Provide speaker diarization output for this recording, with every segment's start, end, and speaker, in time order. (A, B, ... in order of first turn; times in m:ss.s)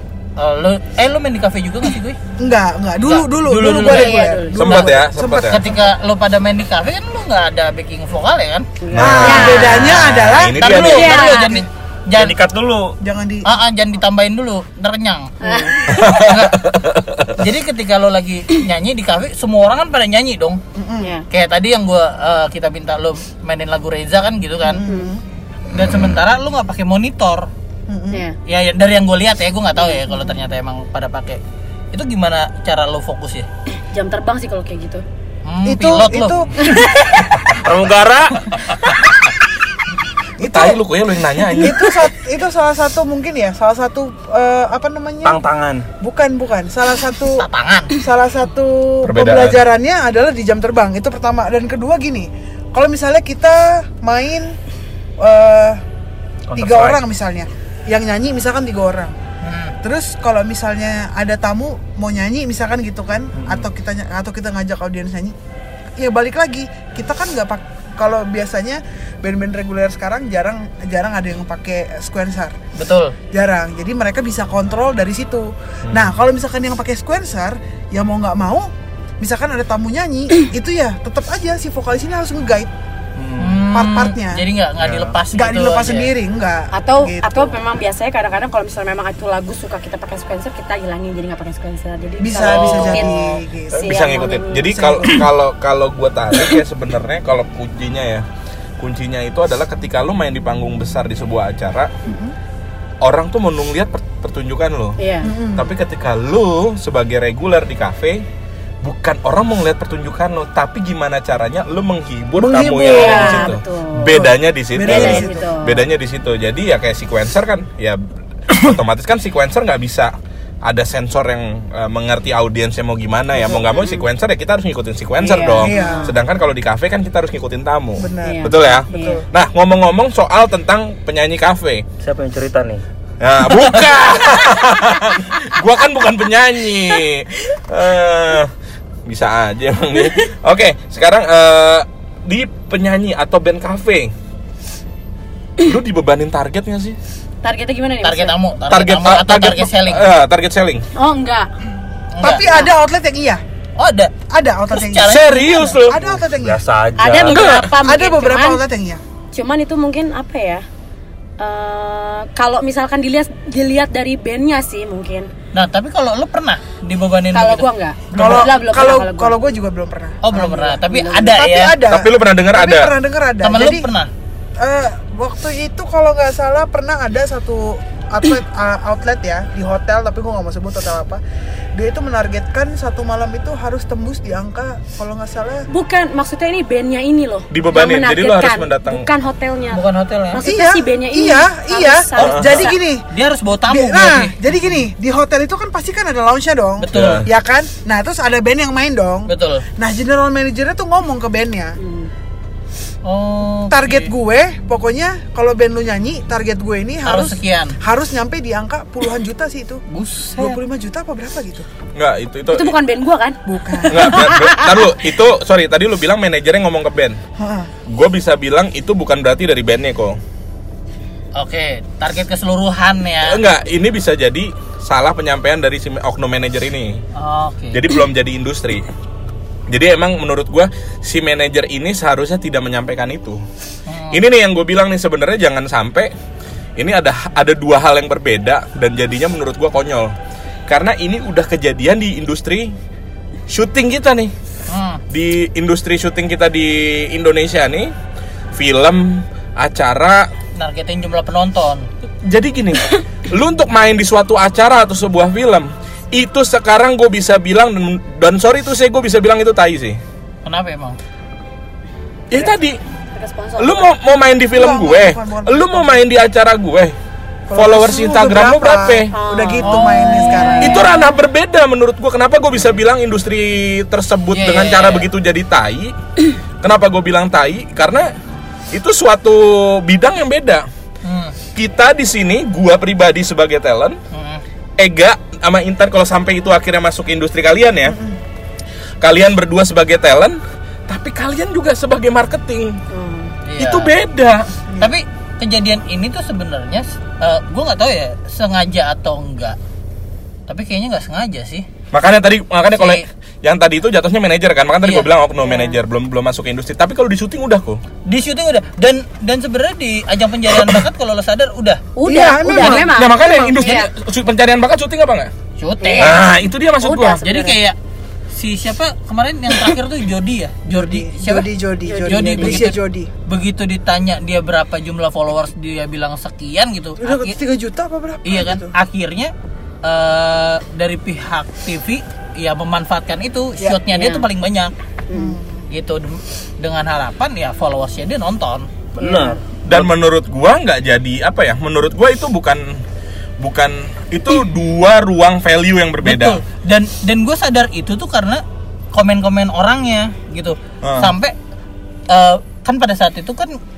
0:00.4-0:02.2 A
0:02.4-0:05.8 B
0:03.0-0:08.7 A
0:03.7-0:04.7 C
0:04.6-0:05.6 D
0:08.8-0:10.1 C
0:08.9-0:11.2 D
0:09.0-0:11.7 B
0:10.6-0:12.4 A
0:10.8-0:11.6 C
0:12.2-0:13.0 E
0:13.0-0:13.5 B
0:13.4-0:16.7 A
0:15.4-0:16.0 C
0:15.9-0:17.3 D
0:17.4-0:20.6 A
0:20.8-0:21.1 B
0:21.0-0:21.2 C
0:21.3-0:24.8 A
0:24.6-0:25.2 B
0:24.8-0:25.1 C
0:25.7-0:27.5 A
0:27.9-0:28.2 B
0:28.5-0:31.4 A
0:31.9-0:33.5 A
0:33.9-0:35.0 C
0:35.5-0:36.4 A
0:35.6-0:36.6 B
0:36.6-0:37.1 C
0:37.6-0:38.6 E
0:40.4-0:40.8 B
0:40.4-0:42.0 D
0:41.6-0:45.4 B
0:45.2-0:45.9 E
0:46.0-0:54.6 B
0:47.4-0:48.0 A
0:49.0-0:49.6 D
0:55.2-0:55.8 B
0:56.5-0:57.0 E
0:56.6-0:59.2 B
0:59.4-0:59.8 A
0:59.8-1:05.4 B
1:03.4-1:03.7 E
1:06.0-1:12.6 B
1:12.8-1:13.2 A
1:13.3-1:22.7 B
1:23.2-1:23.6 E
1:23.4-1:26.1 A
1:23.7-1:24.4 B
1:24.8-1:25.1 E
1:25.3-1:27.6 B
1:26.7-1:34.8 C
1:32.2-1:34.0 B
1:32.4-1:33.2 A
1:33.7-1:38.3 D
1:34.6-1:35.3 B
1:38.8-1:41.9 D
1:42.1-1:42.4 B
1:43.0-1:45.0 D
1:45.0-1:45.3 C
1:45.2-1:45.7 B
1:45.6-1:48.3 D
1:48.8-2:11.8 D
1:52.4-1:53.6 B
1:52.8-1:54.3 C
1:54.1-1:55.5 B
1:54.8-1:55.8 C
2:03.7-2:04.0 C
2:05.2-2:06.2 C
2:05.6-2:06.1 B
2:08.0-2:09.2 B
2:08.2-2:09.2 C
2:12.0-2:12.8 E
2:13.2-2:18.5 D
2:19.0-2:24.1 D
2:25.6-2:27.0 D
2:27.4-2:28.4 C
2:28.0-2:30.1 A
2:28.7-2:30.8 D
2:31.0-2:31.5 C
2:32.1-2:32.6 A
2:32.2-2:33.4 B
2:32.4-2:32.7 C
2:33.8-2:34.1 A
2:34.3-2:35.2 B
2:34.7-2:35.8 A
2:35.0-2:36.0 D
2:35.9-2:36.6 B
2:36.0-2:37.4 E
2:37.0-2:38.6 C
2:37.3-2:39.0 B
2:37.4-2:37.6 D
2:39.3-2:40.6 C
2:41.4-2:45.3 C
2:45.5-2:48.5 A
2:47.3-2:49.4 C
2:48.1-2:53.9 B
2:50.2-2:51.8 A
2:50.9-2:51.3 C
2:51.8-2:52.9 D
2:53.4-2:54.1 A
2:54.6-3:01.2 B
3:01.8-3:05.7 B
3:05.7-3:12.8 C
3:07.5-3:09.1 D
3:09.7-3:10.5 A
3:10.4-3:13.0 B
3:12.2-3:12.7 D
3:13.1-3:14.8 A
3:13.7-3:21.8 B
3:16.8-3:17.2 A
3:16.9-3:17.3 D
3:19.3-3:19.6 A
3:21.8-3:22.1 C
3:23.0-3:24.1 A
3:23.7-3:29.8 B
3:27.0-3:27.8 A
3:29.9-3:30.6 A
3:30.4-3:31.7 B
3:32.0-3:32.8 D
3:32.5-3:34.8 C
3:33.5-3:34.3 B
3:33.9-3:37.2 D
3:37.4-3:37.7 B
3:37.9-3:40.2 D
3:41.4-3:43.4 A
3:43.2-3:47.0 D
3:47.2-3:47.8 A
3:47.7-3:48.8 D
3:49.7-3:53.4 D
3:53.9-3:54.2 A
3:54.1-3:56.1 D
3:56.8-4:00.1 D
4:00.7-4:02.7 D
4:03.5-4:04.3 D
4:04.7-4:05.0 A
4:05.1-4:07.9 D
4:08.6-4:10.3 D
4:10.6-4:11.9 A
4:12.2-4:20.0 D
4:20.4-4:21.0 A
4:22.3-4:22.8 D
4:23.1-4:23.9 C
4:23.6-4:27.0 D
4:24.5-4:26.0 B
4:27.5-4:30.8 B
4:27.5-4:29.1 D
4:29.1-4:31.0 C
4:29.6-4:30.9 A
4:30.6-4:36.0 D
4:34.3-4:35.1 A
4:36.6-4:38.1 D
4:38.7-4:40.7 D
4:41.0-4:41.4 A
4:41.6-4:44.0 D
4:44.1-4:44.4 A
4:44.8-4:48.0 D
4:47.8-4:48.2 B
4:49.0-4:52.8 D
4:52.9-4:53.3 C
4:53.5-4:53.9 A
4:53.6-4:54.5 D
4:54.8-4:59.6 A
5:00.5-5:01.6 A
5:01.9-5:07.8 D
5:02.7-5:03.0 A
5:04.8-5:05.1 A
5:05.5-5:05.8 C
5:08.1-5:11.8 A
5:10.5-5:10.8 D
5:12.0-5:13.9 C
5:12.1-5:12.9 B
5:12.8-5:15.3 D
5:15.6-5:16.2 A
5:15.8-5:16.3 C
5:16.0-5:17.2 D
5:16.8-5:17.6 C
5:17.2-5:17.8 A
5:18.3-5:21.5 A
5:20.7-5:23.1 B
5:21.8-5:22.7 C
5:22.0-5:27.4 A
5:27.0-5:28.7 B
5:28.2-5:29.3 A
5:29.8-5:34.7 A
5:33.9-5:34.3 C
5:35.1-5:35.4 C
5:35.1-5:35.7 B
5:35.7-5:38.7 A
5:39.0-5:39.9 E
5:39.0-5:39.4 C
5:39.7-5:42.8 D
5:43.4-5:46.4 D
5:46.0-5:51.3 A
5:50.8-5:51.1 D
5:52.1-5:53.6 A